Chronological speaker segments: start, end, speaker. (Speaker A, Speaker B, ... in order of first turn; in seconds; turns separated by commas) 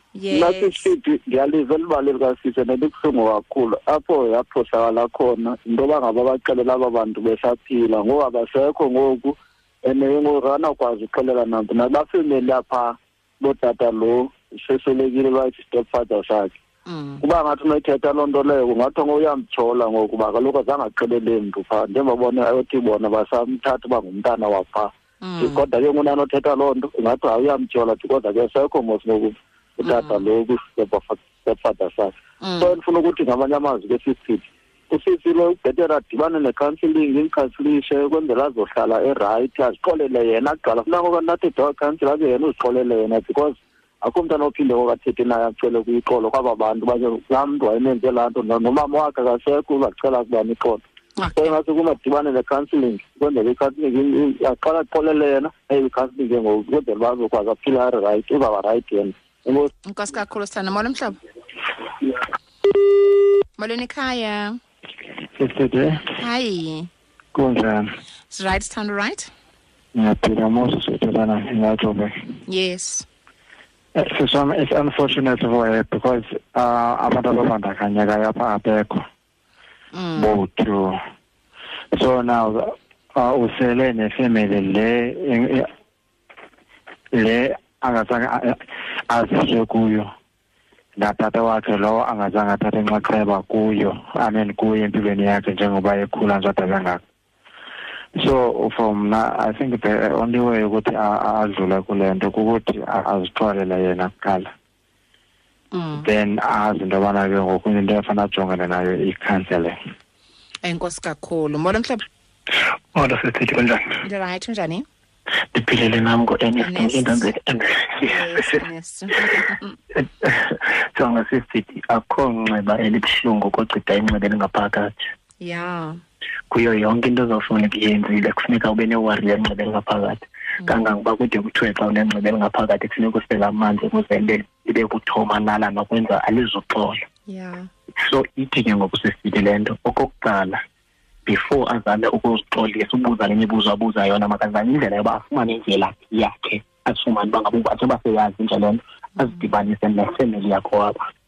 Speaker A: 0.1-0.9, Speaker B: 0.3-16.6, Speaker A: 16.9-17.2, Speaker B: 17.2-50.8, Speaker A: 25.2-25.6, Speaker A: 29.8-30.2, Speaker A: 32.4-32.8, Speaker A: 51.2-51.6, Speaker B: 51.4-59.7, Speaker A: 59.9-61.2, Speaker A: 63.6-64.6, Speaker C: 65.4-66.1, Speaker A: 66.2-66.9, Speaker C: 67.3-67.8, Speaker A: 68.3-69.3, Speaker C: 69.9-72.1, Speaker A: 72.5-73.1, Speaker C: 74.0-79.0, Speaker A: 79.9-80.4, Speaker C: 80.2-81.0, Speaker C: 81.9-85.7, Speaker C: 87.1-88.6, Speaker C: 89.1-90.1, Speaker C: 91.0-97.0, Speaker C: 98.2-104.5, Speaker A: 105.7-106.1, Speaker C: 106.0-109.8, Speaker A: 110.6-112.0, Speaker D: 112.9-114.0, Speaker A: 114.0-114.9, Speaker D: 115.5-118.6, Speaker A: 116.6-117.3, Speaker A: 118.0-119.7, Speaker D: 119.9-125.0, Speaker A: 125.4-126.0, Speaker D: 126.5-137.0, Speaker A: 130.6-130.9, Speaker A: 137.3-137.7, Speaker D: 138.0-140.6, Speaker D: 141.3-151.0